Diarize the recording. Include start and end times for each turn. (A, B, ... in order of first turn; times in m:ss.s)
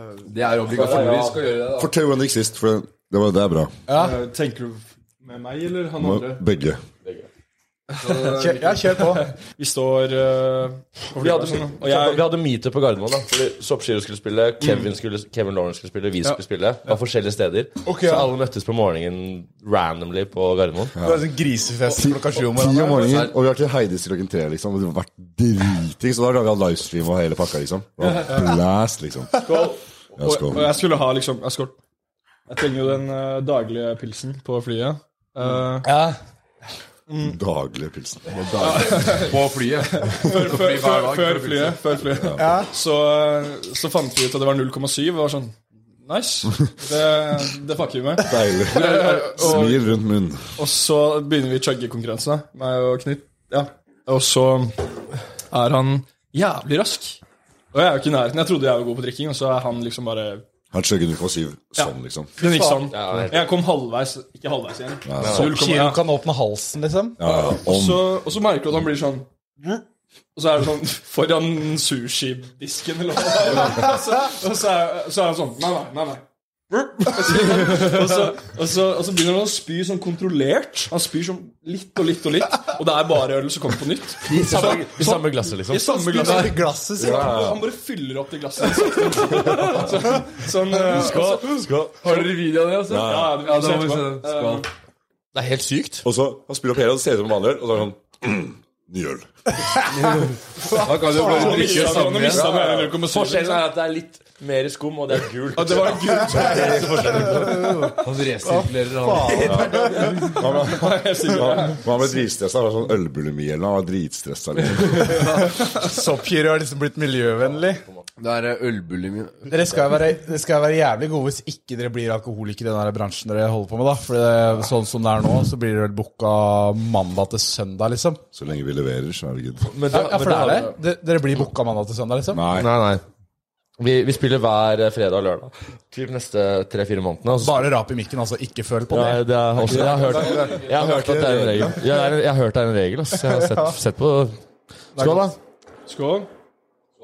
0:00.2-0:01.9 A
0:00.7-0:01.4 B
0:01.7-0:03.7 C
0:03.9-0:04.2 D
0:03.9-0:06.4 E
0:06.0-0:06.8 C
0:07.9-0:12.3 E
0:08.0-0:08.6 A
0:08.3-0:09.3 D
0:11.2-0:21.0 B
0:14.6-0:14.9 E
0:17.8-0:18.3 D
0:21.0-0:21.2 C
0:21.0-0:23.2 D
0:22.0-0:29.4 C
0:23.0-0:23.3 A
0:29.4-0:31.8 E
0:30.2-0:30.7 C
0:32.5-0:35.9 E
0:35.8-0:36.2 D
0:37.1-0:37.4 E
0:37.2-0:38.2 C
0:38.3-0:41.9 A
0:38.6-0:50.0 E
0:42.2-0:42.4 C
0:42.4-0:42.7 D
0:48.2-0:50.4 C
0:50.6-0:54.8 E
0:55.5-0:57.2 E
0:57.7-1:00.4 E
1:00.7-1:02.3 C
1:01.8-1:06.0 E
1:02.4-1:02.9 D
1:02.9-1:03.6 B
1:05.0-1:05.5 C
1:05.2-1:05.6 B
1:05.3-1:07.2 D
1:07.2-1:08.2 C
1:07.2-1:31.7 E
1:24.2-1:26.0 B
1:25.8-1:27.4 D
1:27.0-1:27.6 C
1:29.5-1:29.8 B
1:30.8-1:32.3 B
1:32.0-1:34.7 A
1:32.9-1:33.4 C
1:32.9-1:34.7 E
1:35.3-1:36.1 B
1:36.0-1:39.3 C
1:39.9-1:42.6 A
1:40.6-1:42.1 D
1:41.0-1:43.7 E
1:42.5-1:47.9 B
1:42.6-1:42.9 C
1:45.5-1:47.2 E
1:47.2-1:50.4 D
1:48.0-1:49.6 A
1:49.3-1:50.3 B
1:49.4-1:55.3 C
1:50.0-1:51.9 E
1:55.1-1:57.8 D
1:58.2-1:59.6 A
1:59.5-2:08.2 D
2:08.3-2:09.7 C
2:09.6-2:10.8 B
2:09.9-2:12.4 D
2:12.3-2:12.7 C
2:12.5-2:13.0 B
2:13.8-2:17.7 B
2:17.4-2:20.3 D
2:18.9-2:24.4 B
2:19.6-2:21.9 C
2:23.2-2:23.8 D
2:25.0-2:25.4 B
2:25.0-2:25.4 D
2:25.9-2:26.3 E